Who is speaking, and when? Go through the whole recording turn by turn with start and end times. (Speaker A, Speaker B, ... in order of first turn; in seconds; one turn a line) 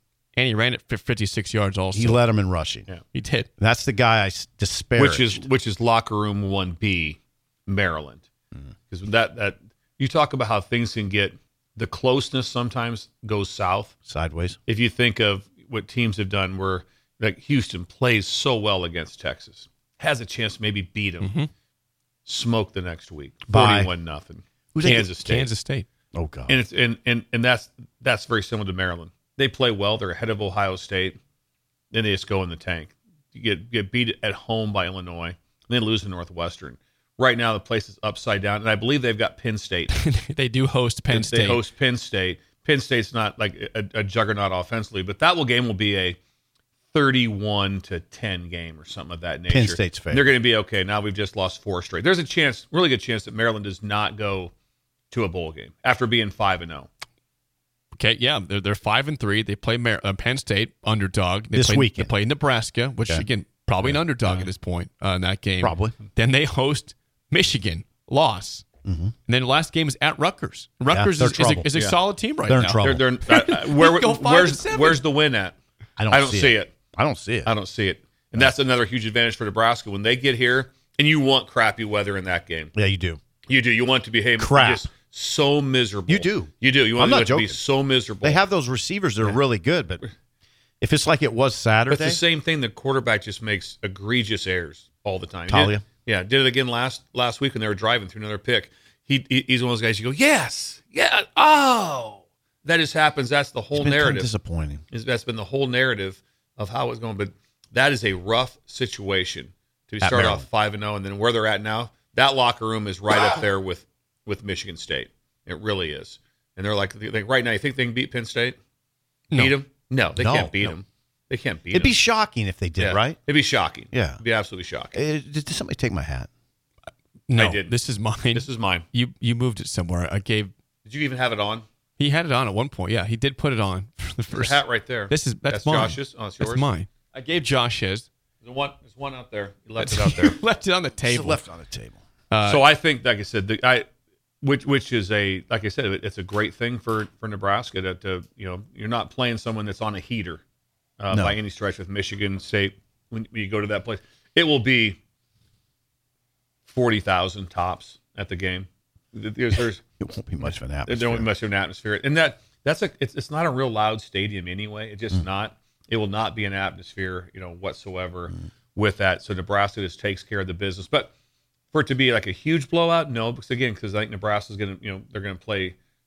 Speaker A: 0.3-2.2
Speaker B: 1.9-2.9
Speaker A: 3.1-3.5
Speaker B: 3.6-5.5
Speaker C: 5.0-8.3
Speaker C: 8.9-13.9
Speaker B: 14.1-14.6
Speaker C: 14.7-21.3
Speaker A: 21.2-21.5
Speaker C: 22.3-25.5
Speaker B: 23.5-23.9
Speaker B: 24.7-25.1
Speaker A: 24.8-25.9
Speaker B: 26.1-26.6
Speaker C: 26.5-31.2
Speaker C: 31.9-40.0
Speaker A: 40.0-41.6
Speaker C: 41.1-46.2
Speaker C: 46.9-54.5
Speaker B: 49.5-50.3
Speaker C: 55.1-56.9
Speaker A: 58.0-68.7
Speaker B: 61.5-62.1
Speaker B: 65.6-66.0
Speaker B: 68.8-69.1
Speaker A: 69.3-75.0
Speaker B: 70.9-71.7
Speaker B: 72.5-73.1
Speaker C: 72.8-75.5
Speaker B: 76.0-77.5
Speaker C: 76.1-76.7
Speaker C: 77.5-82.7
Speaker B: 82.8-83.2
Speaker C: 83.5-88.4
Speaker B: 84.4-84.9
Speaker B: 86.1-87.6
Speaker B: 88.2-90.0
Speaker B: 90.8-92.2
Speaker C: 91.9-104.3
Speaker B: 95.5-95.8
Speaker B: 103.7-104.8
Speaker C: 104.9-118.6
Speaker B: 110.0-110.5
Speaker C: 119.3-122.0
Speaker B: 120.2-120.8
Speaker B: 121.7-123.2
Speaker C: 122.8-125.0
Speaker B: 123.9-124.2
Speaker B: 124.9-126.3
Speaker A: 127.3-130.5
Speaker C: 127.3-127.8
Speaker C: 128.3-128.9
Speaker C: 130.9-131.7
Speaker A: 132.0-134.6
Speaker C: 134.3-136.7
Speaker A: 135.1-138.1
Speaker C: 138.4-140.4
Speaker A: 139.8-141.4
Speaker B: 141.0-142.0
Speaker A: 142.3-142.6
Speaker C: 142.4-143.9
Speaker C: 144.4-150.4
Speaker C: 151.0-155.0
Speaker B: 151.1-151.4
Speaker C: 156.7-159.8
Speaker B: 160.0-161.3
Speaker C: 160.9-171.1
Speaker C: 171.7-175.8